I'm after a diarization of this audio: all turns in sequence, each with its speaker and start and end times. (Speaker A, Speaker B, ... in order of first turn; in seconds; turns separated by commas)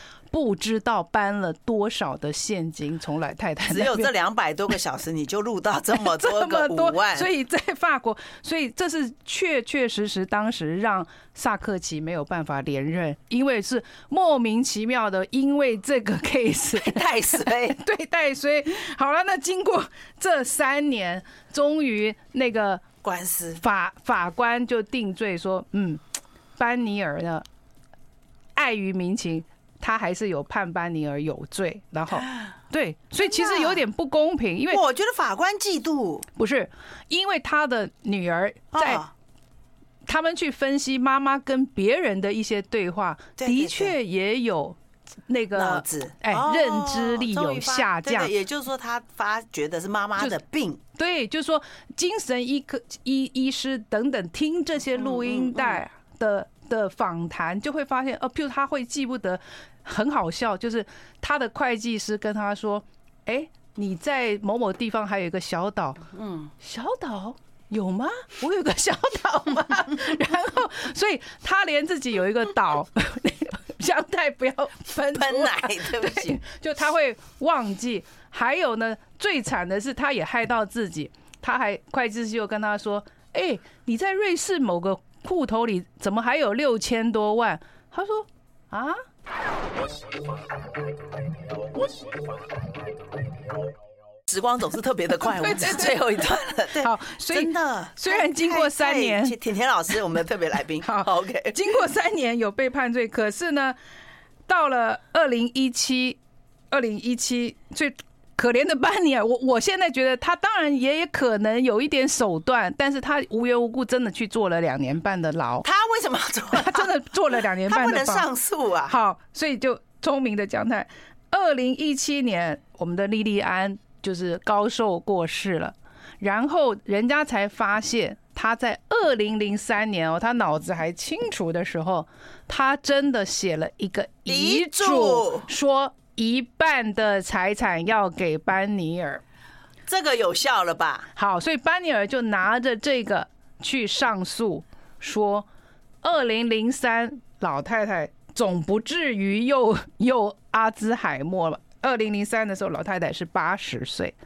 Speaker A: 0.3-4.1, Speaker B: 3.7-7.3, Speaker A: 5.9-22.9, Speaker B: 16.8-17.8, Speaker B: 23.0-23.6, Speaker A: 23.6-26.0, Speaker A: 26.6-27.4, Speaker A: 28.6-34.8, Speaker B: 32.1-32.5, Speaker B: 33.2-33.8, Speaker B: 34.7-36.3, Speaker A: 36.4-39.0, Speaker B: 38.7-39.1, Speaker A: 40.1-44.8, Speaker B: 43.4-44.0, Speaker A: 45.3-48.3, Speaker B: 45.5-50.8, Speaker A: 51.0-66.1, Speaker B: 55.0-55.8, Speaker B: 66.2-66.5, Speaker A: 66.6-89.0, Speaker B: 75.1-76.4, Speaker B: 94.3-101.6, Speaker A: 95.2-96.0, Speaker A: 96.7-99.4, Speaker A: 100.8-103.8, Speaker A: 104.5-106.2, Speaker A: 106.7-115.7, Speaker B: 115.6-116.9, Speaker A: 116.5-118.3, Speaker B: 117.7-118.9, Speaker A: 118.9-139.2, Speaker B: 134.3-135.5, Speaker B: 139.9-141.1, Speaker A: 141.2-145.5, Speaker A: 146.0-154.2